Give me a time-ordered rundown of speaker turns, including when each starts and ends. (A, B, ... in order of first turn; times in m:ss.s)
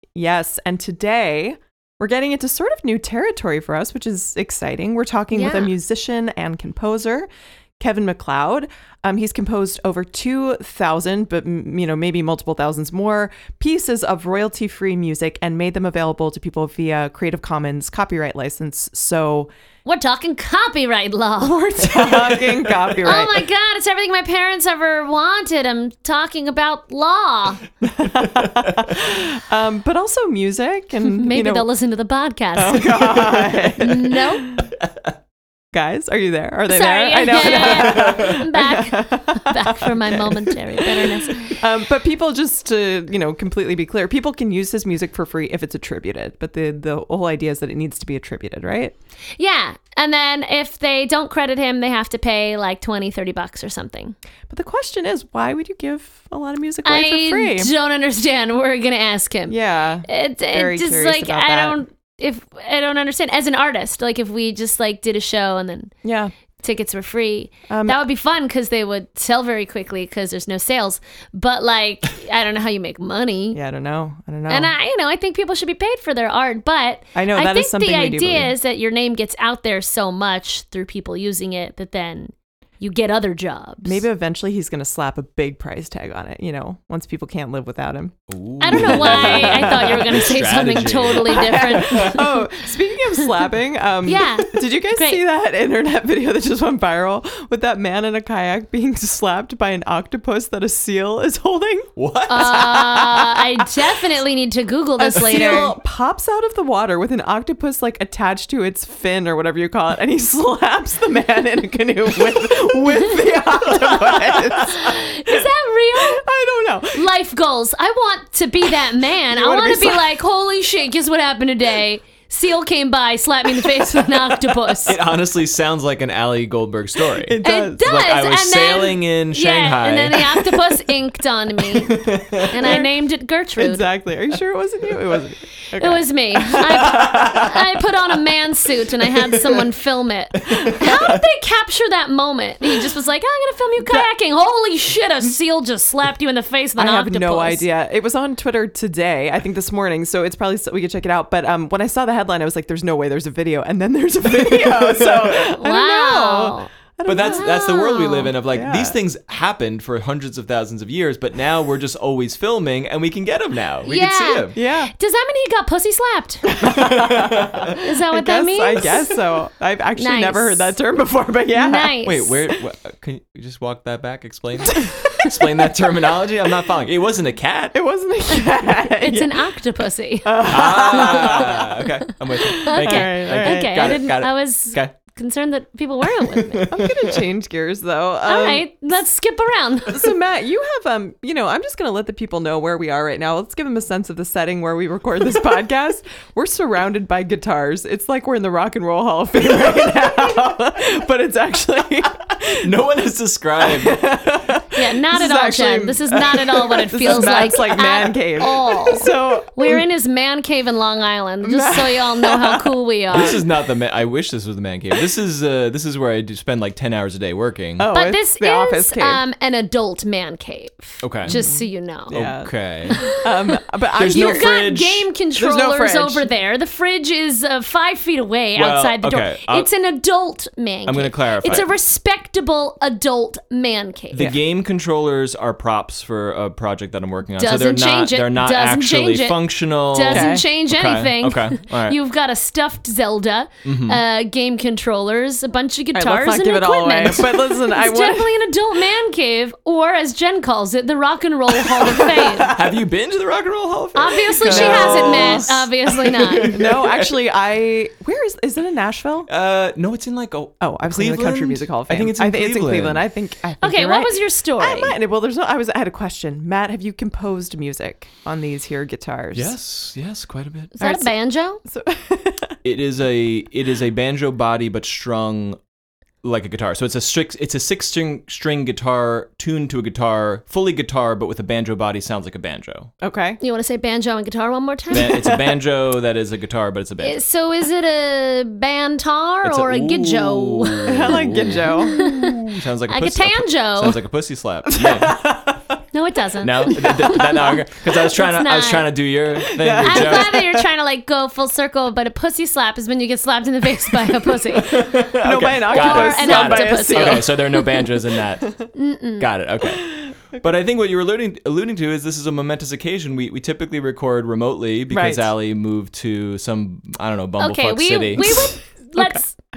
0:00.2-0:07.3 A
0:05.3-0:05.8 B
0:07.8-0:19.5 A
0:19.8-0:22.4 B
0:21.7-0:23.5 A
0:23.0-0:27.7 B
0:27.8-0:31.7 A
0:28.2-0:28.8 C
0:31.1-0:34.6 B
0:32.5-0:34.7 A
0:35.7-0:48.9 A
0:36.7-0:41.6 B
0:37.5-0:38.4 C
0:49.4-0:54.2 B
0:54.5-0:57.7 A
0:56.8-1:05.9 B
0:59.5-1:01.8 A
1:06.0-1:06.3 A
1:06.6-1:13.6 B
1:07.7-1:08.0 A
1:13.5-1:14.7 A
1:14.5-1:24.0 B
1:17.2-1:18.5 A
1:23.8-1:30.3 A
1:28.3-1:32.2 C
1:28.6-1:32.5 B
1:31.1-1:43.7 A
1:34.0-1:35.2 B
1:42.0-1:42.9 C
1:42.3-1:45.7 B
1:45.0-1:57.1 A
1:54.6-1:56.2 B
1:56.9-2:05.0 B
1:59.3-2:00.1 A
2:03.5-2:04.9 A
2:04.8-2:10.6 C
2:07.2-2:08.0 A
2:07.4-2:13.9 B
2:12.0-2:12.5 C
2:12.6-2:12.9 A
2:13.6-2:17.4 A
2:15.8-2:27.7 B
2:16.6-2:17.5 C
2:19.2-2:19.6 C
2:20.4-2:21.2 C
2:23.8-2:24.1 A
2:26.8-2:39.0 A
2:34.3-2:35.5 C
2:35.5-2:38.3 B
2:37.0-2:44.5 C
2:43.8-2:46.5 B
2:44.5-2:44.9 A
2:46.5-2:52.0 A
2:46.6-2:47.8 C
2:47.8-2:49.0 B
2:50.0-2:50.7 B
2:51.5-2:52.4 B
2:52.0-2:57.8 C
2:54.7-2:55.7 A
2:57.7-2:59.6 A
2:58.4-3:01.6 B
3:00.2-3:01.7 A
3:00.5-3:04.9 C
3:02.4-3:04.0 A
3:02.7-3:06.7 B
3:06.4-3:07.2 C
3:06.7-3:08.7 A
3:08.2-3:10.1 B
3:09.9-3:22.7 A
3:22.6-3:24.3 C
3:23.6-3:29.9 A
3:24.7-3:33.4 B
3:31.4-3:33.4 A
3:33.1-3:37.9 C
3:37.8-3:39.2 A
3:37.9-3:42.1 B
3:41.0-3:41.4 C
3:41.3-3:44.7 A
3:42.1-3:43.0 C
3:42.9-3:54.3 B
3:44.0-3:45.1 C
3:45.4-3:46.3 A
3:48.6-3:49.7 C
3:50.8-3:51.7 C
3:54.1-4:02.0 C
3:57.4-4:12.5 B
4:00.1-4:00.4 A
4:03.6-4:04.0 C
4:05.9-4:08.4 A
4:11.6-4:12.6 A
4:12.5-4:17.2 C
4:14.0-4:16.6 B
4:14.4-4:15.6 A
4:16.4-4:19.3 A
4:19.3-4:23.0 C
4:20.6-4:29.5 A
4:23.6-4:25.0 B
4:29.3-4:30.8 C
4:30.8-4:31.6 B
4:30.8-4:31.1 A
4:31.6-4:32.6 A
4:32.6-4:35.6 C
4:36.2-4:42.9 C
4:43.0-4:43.4 A
4:43.4-4:45.3 B
4:44.9-4:47.2 C
4:47.0-4:54.0 B
4:49.4-4:55.4 C
4:50.8-4:52.0 A
4:54.7-4:55.6 A
4:55.9-5:05.0 B
4:56.4-5:00.4 C
4:59.5-5:00.7 A
5:04.6-5:08.5 C
5:05.2-5:07.9 A
5:05.5-5:07.7 B
5:08.7-5:09.3 B
5:09.2-5:18.4 C
5:09.7-5:10.4 A
5:14.9-5:15.3 A
5:17.4-5:19.4 B